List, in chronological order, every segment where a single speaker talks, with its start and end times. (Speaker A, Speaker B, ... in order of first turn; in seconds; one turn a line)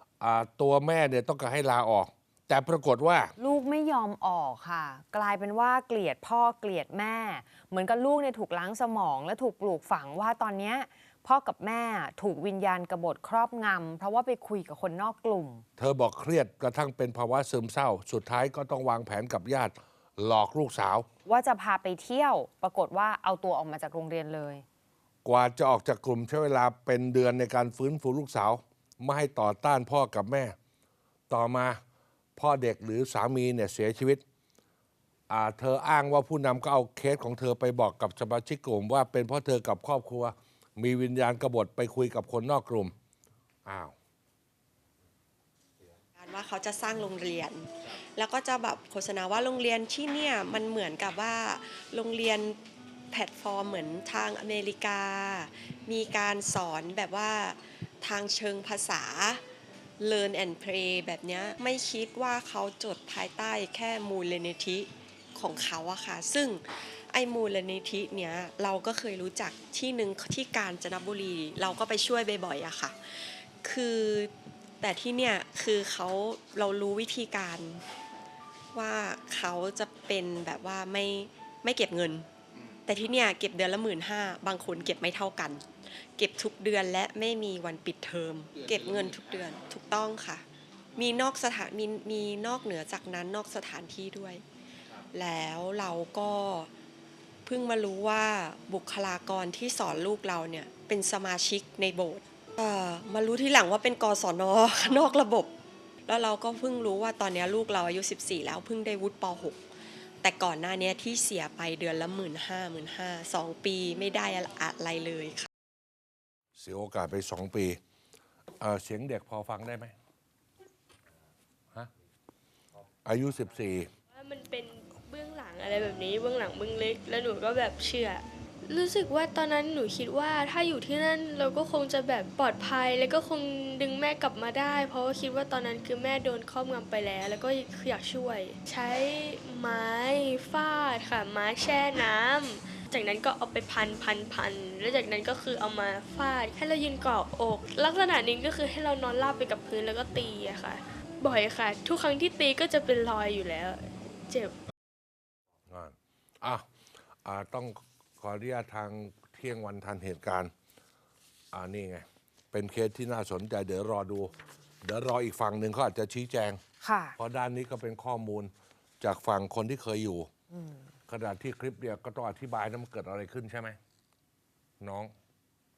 Speaker A: 0.2-3.3
Speaker B: 3.4-15.6
Speaker A: 15.8-21.1
Speaker B: 21.2-24.6
Speaker A: 25.2-30.5
Speaker A: 31.3-31.8
Speaker A: 32.4-34.2
Speaker A: 35.3-42.9
Speaker A: 43.6-43.9
Speaker C: 46.1-52.6
Speaker C: 53.1-59.4
Speaker C: 60.0-77.8
Speaker C: 78.7-82.3
Speaker C: 82.8-90.4
Speaker C: 91.0-94.4
Speaker C: 95.1-96.7
Speaker C: 97.5-105.5
Speaker C: 106.1-109.6
Speaker C: 110.2-115.5
Speaker A: 116.6-117.8
Speaker A: 118.6-119.9
Speaker A: 123.0-123.9
Speaker D: 124.1-154.5
Speaker A: 155.7-156.7
Speaker A: 157.2-160.5
Speaker A: 161.5-166.6
Speaker B: 166.8-167.1
Speaker A: 167.2-170.3
Speaker B: 170.5-170.8
Speaker A: 171.1-173.8
Speaker A: 174.8-175.1